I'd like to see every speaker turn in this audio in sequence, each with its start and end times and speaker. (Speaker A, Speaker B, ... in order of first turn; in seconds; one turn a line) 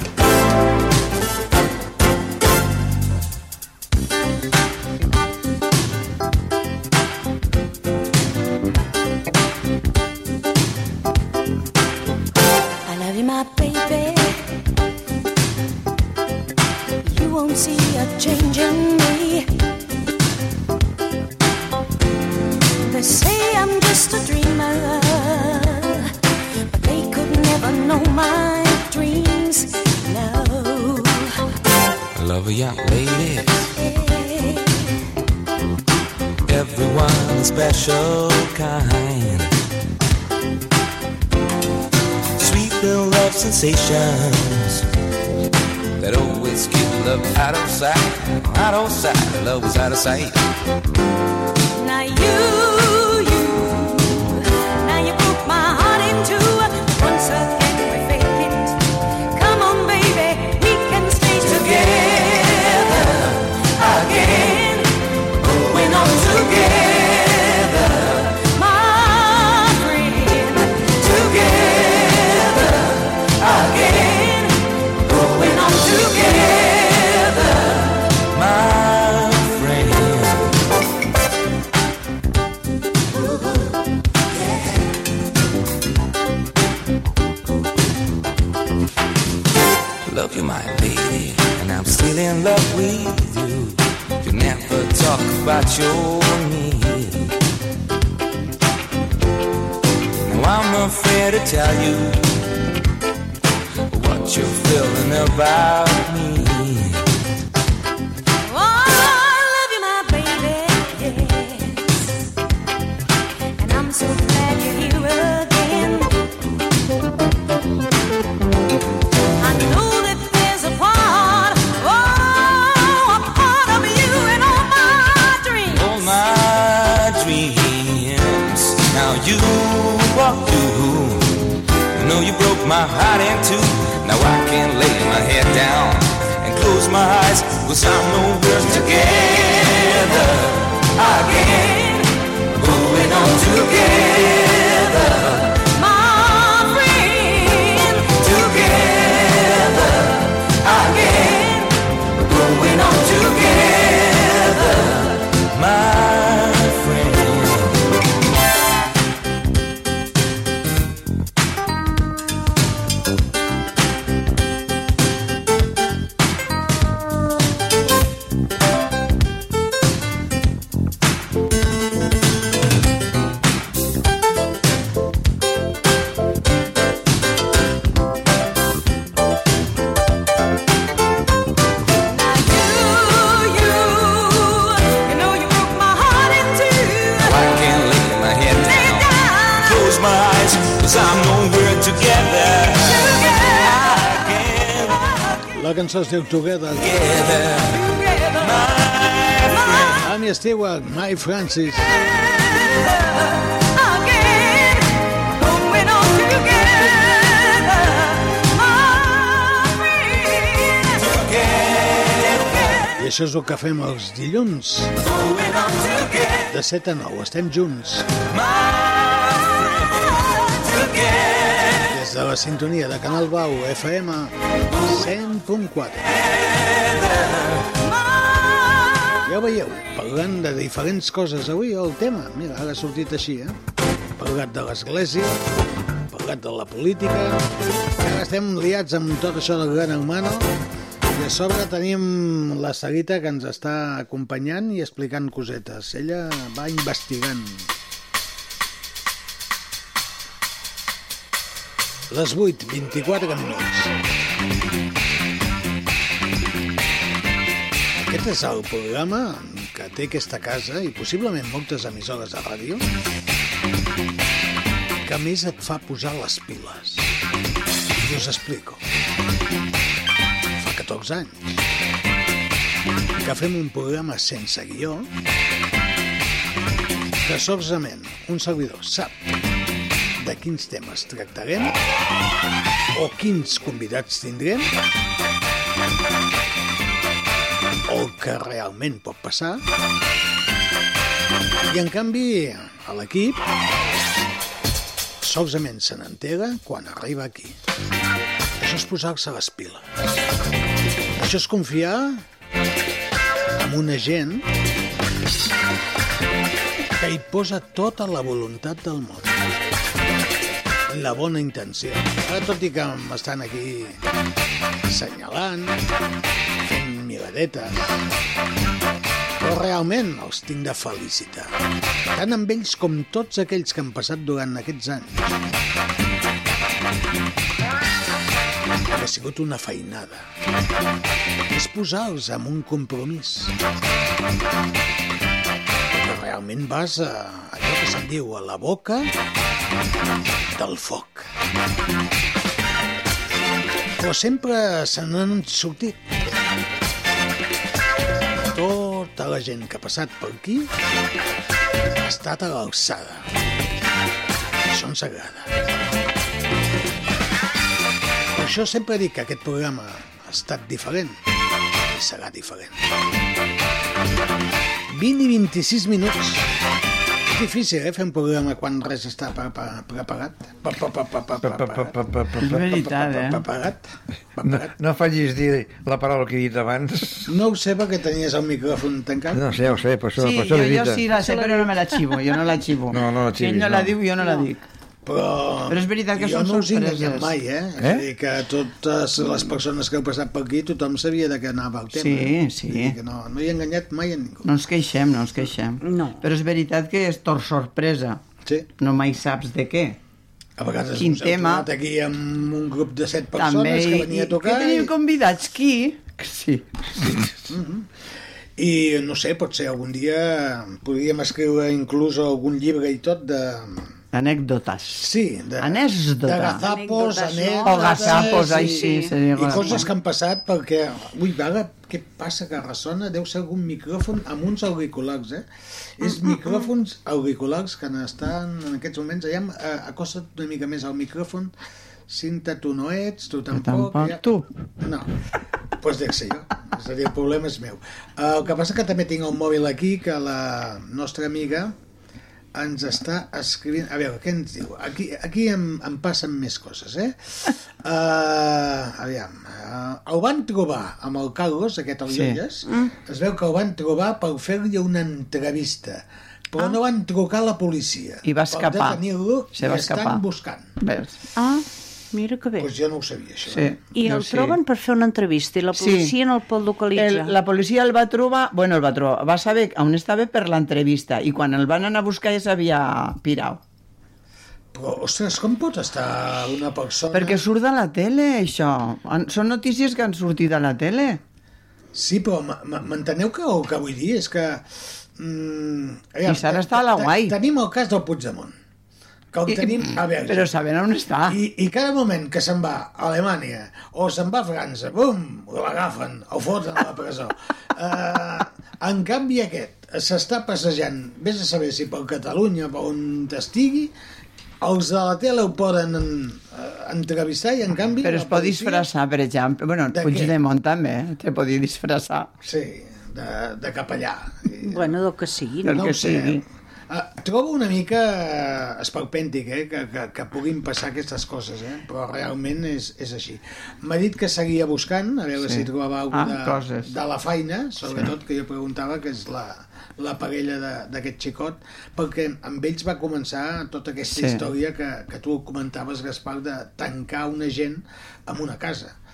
Speaker A: 12.9-14.5
Speaker A: 17.0-19.5
Speaker A: 22.8-26.1
Speaker A: 26.7-31.3
Speaker B: 32.2-33.7
Speaker A: 33.8-34.8
Speaker B: 36.5-39.5
Speaker B: 42.4-44.8
Speaker B: 46.0-50.4
Speaker A: 51.8-54.3
Speaker A: 54.8-58.7
Speaker A: 59.4-62.9
Speaker A: 63.9-64.9
Speaker A: 65.5-67.4
Speaker A: 68.3-72.5
Speaker A: 73.5-74.4
Speaker A: 75.1-77.4
Speaker B: 78.3-80.6
Speaker B: 90.1-97.3
Speaker B: 100.2-102.4
Speaker B: 103.9-107.0
Speaker A: 108.5-111.8
Speaker A: 113.6-116.1
Speaker A: 119.4-125.9
Speaker B: 125.7-142.0
Speaker B: 142.6-145.5
Speaker A: 146.0-147.6
Speaker B: 148.0-149.7
Speaker B: 150.6-151.4
Speaker B: 152.3-154.5
Speaker B: 155.4-157.9
Speaker A: 182.3-182.9
Speaker A: 183.6-184.0
Speaker A: 184.9-187.0
Speaker B: 187.2-195.1
Speaker C: 195.5-196.9
Speaker B: 196.8-200.0
Speaker C: 200.0-202.0
Speaker C: 212.9-215.0
Speaker C: 216.5-218.1
Speaker B: 219.2-219.6
Speaker C: 221.8-226.1
Speaker C: 229.2-233.6
Speaker C: 234.2-235.4
Speaker C: 236.1-240.5
Speaker C: 241.1-247.7
Speaker C: 252.1-253.9
Speaker C: 258.1-262.9
Speaker C: 265.0-267.1
Speaker C: 268.0-268.8
Speaker C: 270.6-271.6
Speaker C: 273.2-275.1
Speaker C: 277.2-279.1
Speaker C: 280.2-281.8
Speaker C: 282.9-284.7
Speaker C: 287.9-289.6
Speaker C: 291.7-293.4
Speaker C: 295.2-297.6
Speaker C: 298.6-299.9
Speaker C: 301.2-302.2
Speaker C: 303.6-304.5
Speaker C: 307.0-309.4
Speaker C: 310.9-314.0
Speaker C: 314.9-315.8
Speaker C: 316.6-317.9
Speaker C: 319.4-321.5
Speaker C: 322.1-325.4
Speaker C: 328.9-330.2
Speaker C: 331.5-333.5
Speaker C: 335.9-339.1
Speaker C: 340.5-341.3
Speaker C: 344.0-346.0
Speaker C: 348.5-350.7
Speaker C: 352.0-353.3
Speaker C: 354.7-355.5
Speaker C: 358.3-361.2
Speaker C: 361.9-362.8
Speaker C: 364.9-366.5
Speaker C: 367.3-374.8
Speaker D: 371.4-372.6
Speaker E: 372.4-373.4
Speaker D: 374.4-377.3
Speaker C: 377.3-379.5
Speaker D: 379.3-381.0
Speaker E: 380.2-384.6
Speaker F: 381.1-382.1
Speaker D: 382.9-384.0
Speaker F: 384.2-384.5
Speaker C: 385.1-394.4
Speaker E: 385.7-387.3
Speaker D: 387.8-388.1
Speaker E: 391.9-393.0
Speaker E: 394.4-398.2
Speaker F: 395.8-396.2
Speaker E: 398.8-400.0
Speaker C: 400.6-404.9
Speaker E: 401.0-401.7
Speaker E: 403.4-407.2
Speaker C: 407.5-407.9
Speaker C: 408.6-413.9
Speaker E: 414.1-415.1
Speaker C: 415.0-425.5
Speaker E: 415.6-416.6
Speaker F: 416.6-419.9
Speaker E: 417.6-419.9
Speaker C: 426.0-431.5
Speaker F: 426.1-426.6
Speaker C: 432.1-434.2
Speaker E: 433.5-434.5
Speaker C: 434.8-435.1
Speaker C: 435.8-441.7
Speaker C: 442.6-460.7
Speaker E: 452.1-452.4
Speaker F: 452.7-452.9
Speaker E: 458.2-459.0
Speaker E: 459.5-460.2
Speaker E: 460.8-461.2
Speaker F: 461.4-462.7
Speaker C: 462.6-463.8
Speaker E: 463.5-464.6
Speaker F: 463.9-467.4
Speaker E: 465.8-466.1
Speaker E: 466.9-473.6
Speaker C: 474.7-477.4
Speaker E: 477.1-481.2
Speaker C: 481.9-488.5
Speaker E: 486.3-487.4
Speaker C: 489.3-490.6
Speaker E: 489.5-491.4
Speaker C: 491.3-503.9
Speaker C: 504.6-508.9
Speaker E: 508.0-512.3
Speaker C: 509.9-510.3
Speaker C: 512.4-515.0
Speaker F: 514.6-515.9
Speaker E: 515.6-516.4
Speaker C: 515.7-539.0
Speaker E: 525.4-526.9
Speaker E: 534.1-534.5